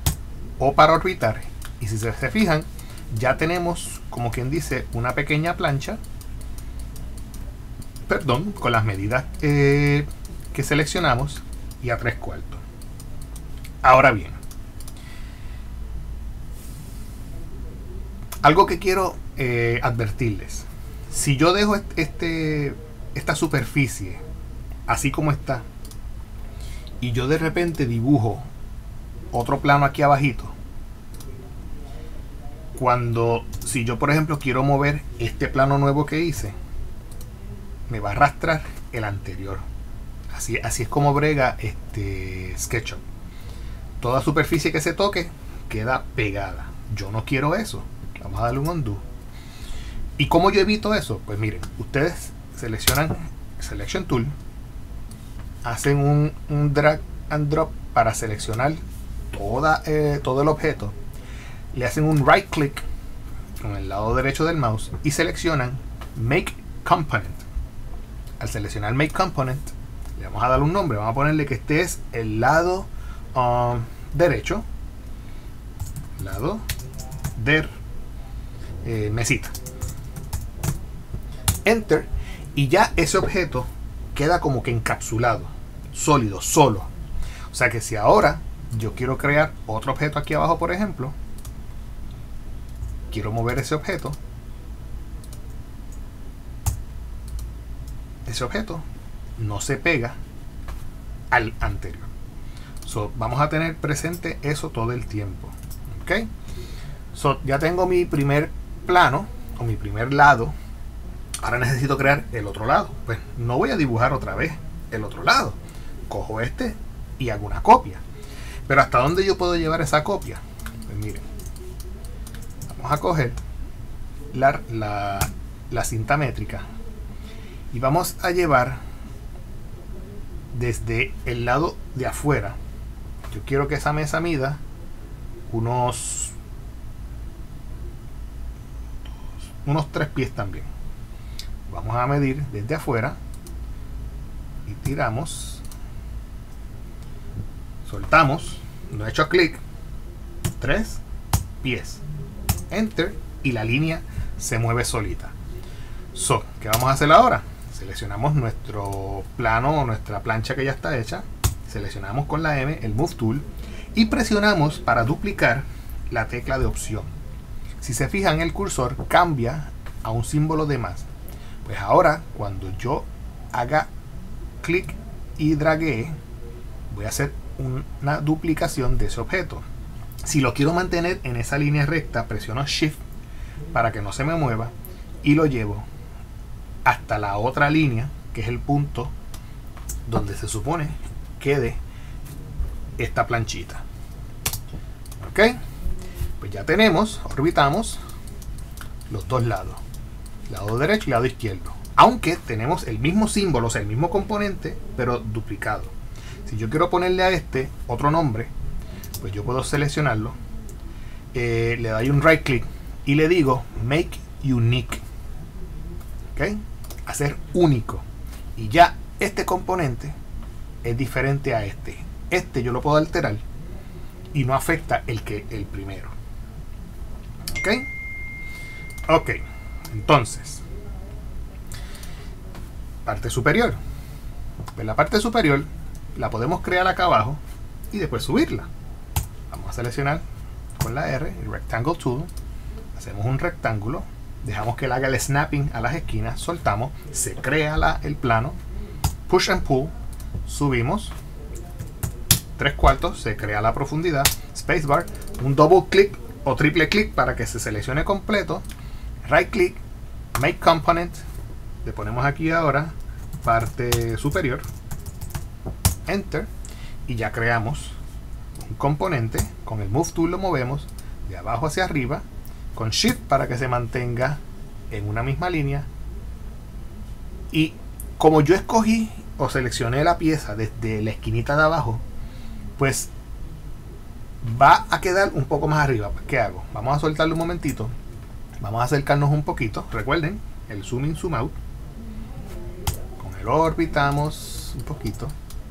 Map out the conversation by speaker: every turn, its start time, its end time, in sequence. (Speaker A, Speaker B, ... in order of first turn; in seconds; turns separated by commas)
Speaker A: 0.6-6.0, Speaker A: 8.1-12.6, Speaker A: 13.8-14.4, Speaker A: 18.4-24.2, Speaker A: 24.9-25.7, Speaker A: 27.0-28.5, Speaker A: 29.3-30.5, Speaker A: 32.8-36.6, Speaker A: 37.9-39.6, Speaker A: 40.3-43.0, Speaker A: 44.0-49.0, Speaker A: 50.2-54.3, Speaker A: 55.6-61.0, Speaker A: 61.7-62.8, Speaker A: 63.6-67.5, Speaker A: 68.4-74.7, Speaker A: 76.2-76.6, Speaker A: 77.4-77.7, Speaker A: 78.8-79.5, Speaker A: 81.7-86.9, Speaker A: 87.5-91.2, Speaker A: 93.1-94.2, Speaker A: 98.3-98.8, Speaker A: 99.4-100.2, Speaker A: 101.3-102.1, Speaker A: 102.8-106.3, Speaker A: 107.1-110.5, Speaker A: 111.4-118.0, Speaker A: 118.7-121.2, Speaker A: 122.7-123.4, Speaker A: 124.3-126.7, Speaker A: 127.7-128.8, Speaker A: 130.5-132.6, Speaker A: 133.3-134.6, Speaker A: 135.5-136.3, Speaker A: 139.4-140.7, Speaker A: 141.7-143.2, Speaker A: 144.7-145.6, Speaker A: 147.8-149.6, Speaker A: 150.6-151.0, Speaker A: 151.6-152.0, Speaker A: 152.7-155.3, Speaker A: 156.1-167.1, Speaker A: 167.8-171.1, Speaker A: 171.6-173.9, Speaker A: 174.6-176.1, Speaker A: 176.9-179.7, Speaker A: 180.2-183.0, Speaker A: 183.7-185.9, Speaker A: 186.8-189.1, Speaker A: 190.1-191.8, Speaker A: 193.0-193.8, Speaker A: 195.2-195.6, Speaker A: 196.4-198.0, Speaker A: 199.1-199.8, Speaker A: 200.5-205.9, Speaker A: 206.5-208.5, Speaker A: 209.2-210.4, Speaker A: 211.3-215.0, Speaker A: 216.3-218.1, Speaker A: 218.6-220.2, Speaker A: 220.8-223.4, Speaker A: 224.3-226.1, Speaker A: 227.5-227.9, Speaker A: 229.1-229.4, Speaker A: 229.9-230.6, Speaker A: 233.1-233.8, Speaker A: 234.8-237.4, Speaker A: 237.9-238.7, Speaker A: 239.5-240.2, Speaker A: 240.8-242.3, Speaker A: 242.9-248.6, Speaker A: 249.3-249.9, Speaker A: 250.4-251.2, Speaker A: 252.6-258.6, Speaker A: 259.2-259.8, Speaker A: 260.4-261.2, Speaker A: 261.8-264.6, Speaker A: 266.1-266.5, Speaker A: 267.1-268.0, Speaker A: 268.6-275.9, Speaker A: 277.5-282.0, Speaker A: 282.8-283.1, Speaker A: 284.4-287.9, Speaker A: 288.6-291.6, Speaker A: 293.2-295.3